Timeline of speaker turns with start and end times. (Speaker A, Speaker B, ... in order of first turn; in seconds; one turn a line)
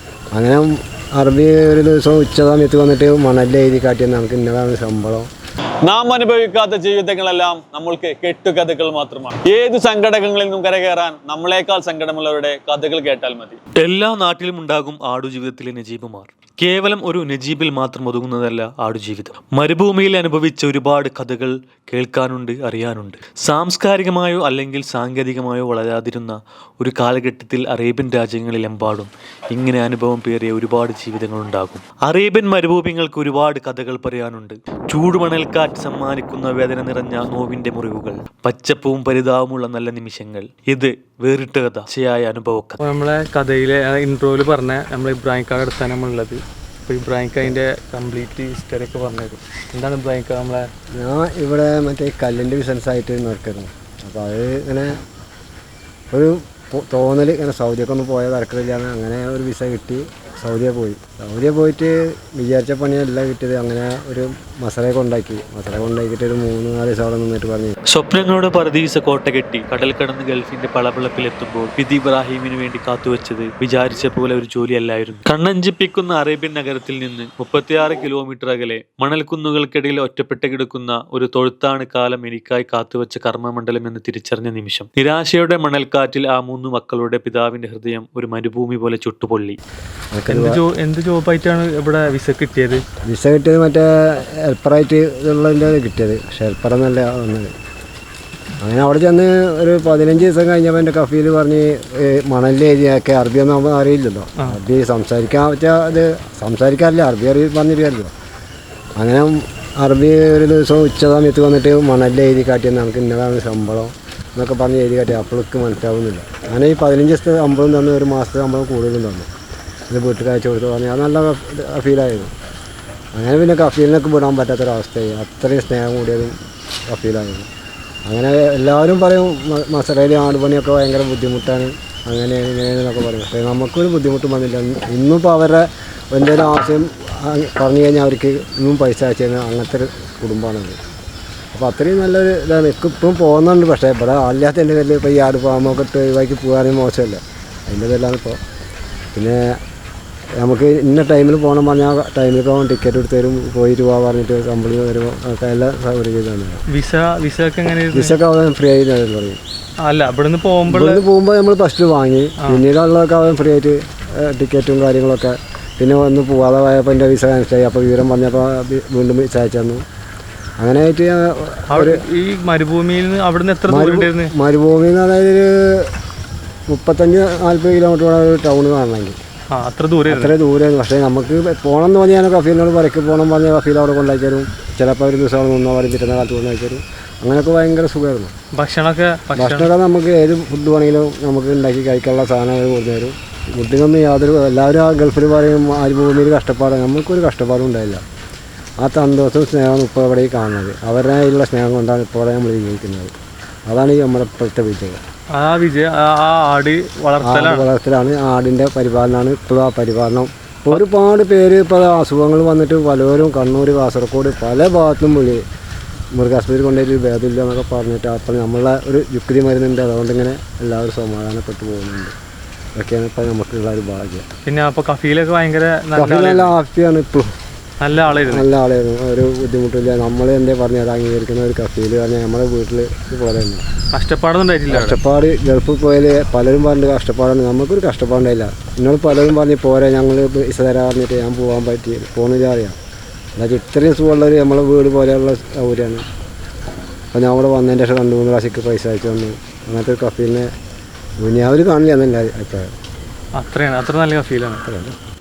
Speaker A: 0.3-5.3
Speaker B: 5.9-13.6
Speaker C: 13.8-42.8
Speaker D: 42.8-50.7
Speaker A: 51.0-55.0
Speaker A: 56.1-67.8
Speaker C: 67.9-89.6
Speaker A: 90.1-90.6
Speaker D: 90.3-92.8
Speaker A: 93.0-97.5
Speaker A: 98.6-108.1
Speaker A: 109.0-119.3
Speaker A: 119.9-122.3
Speaker A: 123.2-126.3
Speaker A: 126.9-127.5
Speaker A: 128.1-140.8
Speaker A: 141.5-148.4
Speaker A: 149.2-149.5
Speaker A: 150.4-156.6
Speaker D: 156.7-158.2
Speaker A: 157.9-159.4
Speaker D: 159.8-161.1
Speaker A: 160.7-169.8
Speaker A: 170.6-172.0
Speaker D: 171.7-174.3
Speaker A: 173.7-175.9
Speaker A: 176.7-179.2
Speaker D: 179.5-180.3
Speaker A: 180.1-188.3
Speaker D: 188.6-189.7
Speaker A: 189.4-198.0
Speaker A: 198.8-203.1
Speaker A: 203.7-205.0
Speaker D: 205.3-207.7
Speaker A: 207.2-215.4
Speaker A: 216.1-222.1
Speaker A: 222.8-224.2
Speaker D: 224.4-226.5
Speaker A: 226.0-227.3
Speaker D: 227.8-228.5
Speaker A: 228.2-233.6
Speaker D: 233.9-235.0
Speaker A: 234.7-242.8
Speaker A: 243.4-246.0
Speaker A: 247.1-250.5
Speaker A: 251.2-252.7
Speaker D: 253.4-254.6
Speaker A: 254.7-254.9